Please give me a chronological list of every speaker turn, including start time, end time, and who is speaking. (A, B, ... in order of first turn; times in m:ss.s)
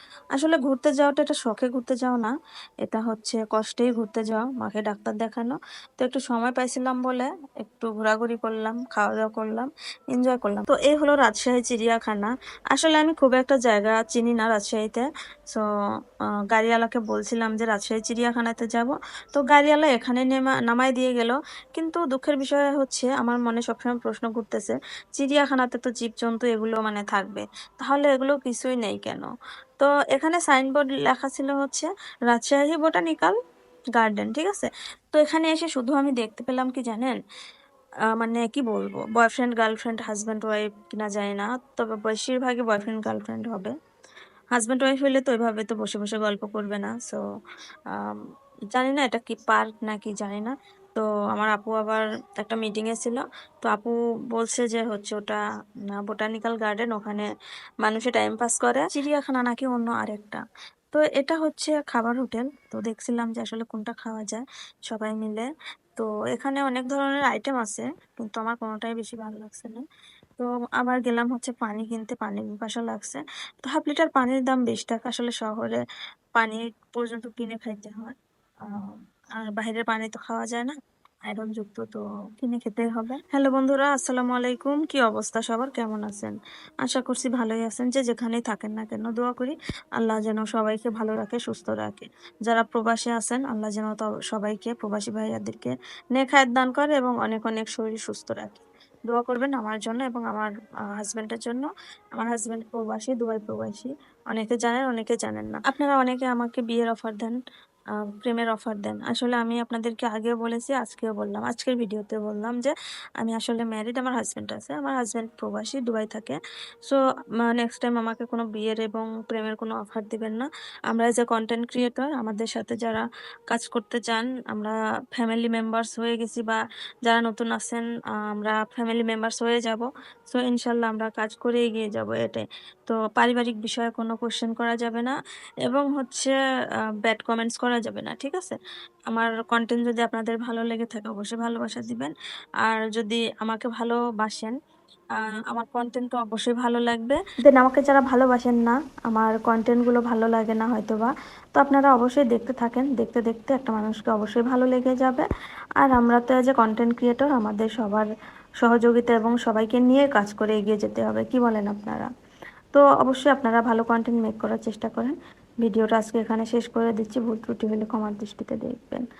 0:00.3-0:15.6 A
0:16.5-0:29.3 A
0:29.8-0:33.4 A
0:34.0-0:37.2 A
0:38.2-0:43.7 A
0:44.6-0:47.2 A
0:47.9-0:48.2 A
0:48.7-0:55.4 A
0:55.9-0:57.3 A
0:57.8-1:00.4 A
1:00.9-1:09.8 A
1:10.4-1:15.8 A
1:16.4-1:18.1 A
1:18.6-1:20.8 A
1:21.3-1:47.4 A
1:48.2-2:15.1 A
2:15.6-2:16.3 A
2:17.0-2:18.6 A
2:19.1-2:24.5 A
2:25.1-2:35.2 A
2:35.8-2:38.1 A
2:38.6-2:42.1 A
2:42.7-2:49.0 A